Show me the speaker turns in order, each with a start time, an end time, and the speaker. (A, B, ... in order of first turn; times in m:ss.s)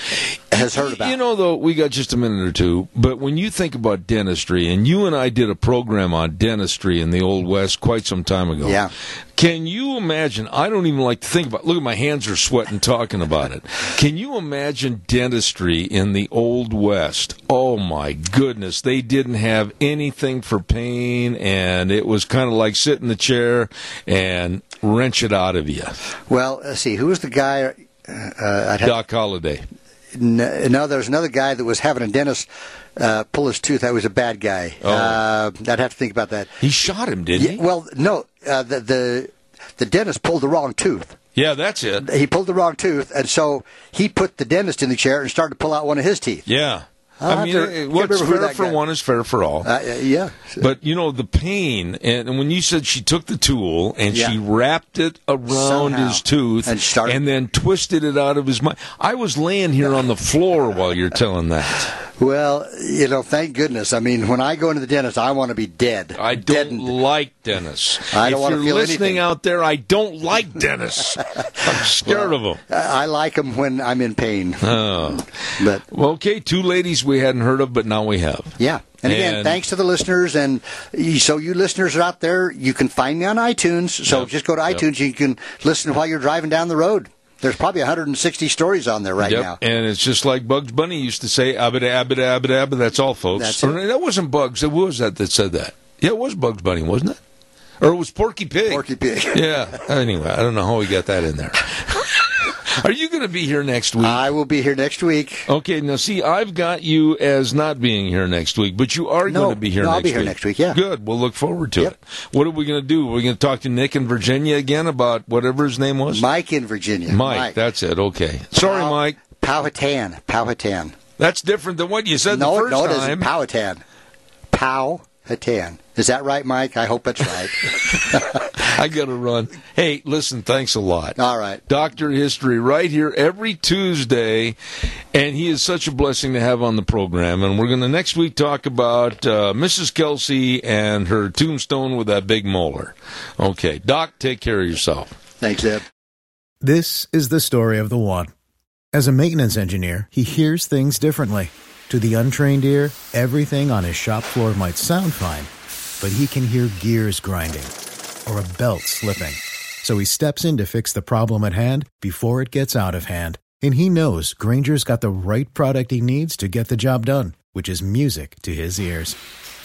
0:00.5-0:01.2 A
0:00.5-0:08.8 B
0:08.6-0:08.9 A
0:09.4-0:26.0 B
0:26.3-0:29.0 A
0:28.8-0:29.6 B
0:30.1-0:36.6 A
0:34.8-0:35.2 B
0:36.6-0:37.6 B
0:37.4-0:41.2 A
0:41.3-0:42.0 B
0:42.0-0:46.4 A
0:46.4-0:49.7 B
0:47.2-0:48.8 A
0:49.6-0:50.6 A
0:50.6-1:01.9 B
0:55.5-0:57.2 A
1:02.1-1:06.9 A
1:06.2-1:12.6 B
1:08.1-1:09.2 A
1:11.6-1:14.8 A
1:14.6-1:19.6 B
1:15.6-1:15.8 A
1:18.6-1:29.6 A
1:24.1-1:24.8 B
1:29.2-1:37.2 B
1:33.4-1:33.8 A
1:37.8-1:44.2 B
1:38.7-1:39.6 A
1:44.0-1:45.5 A
1:45.5-1:56.2 B
1:49.3-1:50.8 A
1:56.1-1:57.6 A
1:57.1-1:59.2 B
1:58.6-2:00.9 A
2:01.2-2:03.3 B
2:02.3-2:03.8 A
2:04.5-2:08.4 A
2:07.9-2:14.6 B
2:11.2-2:11.6 A
2:15.1-2:25.2 B
2:25.4-2:25.8 A
2:26.6-2:28.3 C
2:28.9-2:35.5 C
2:36.0-2:37.7 C
2:38.2-2:49.2 C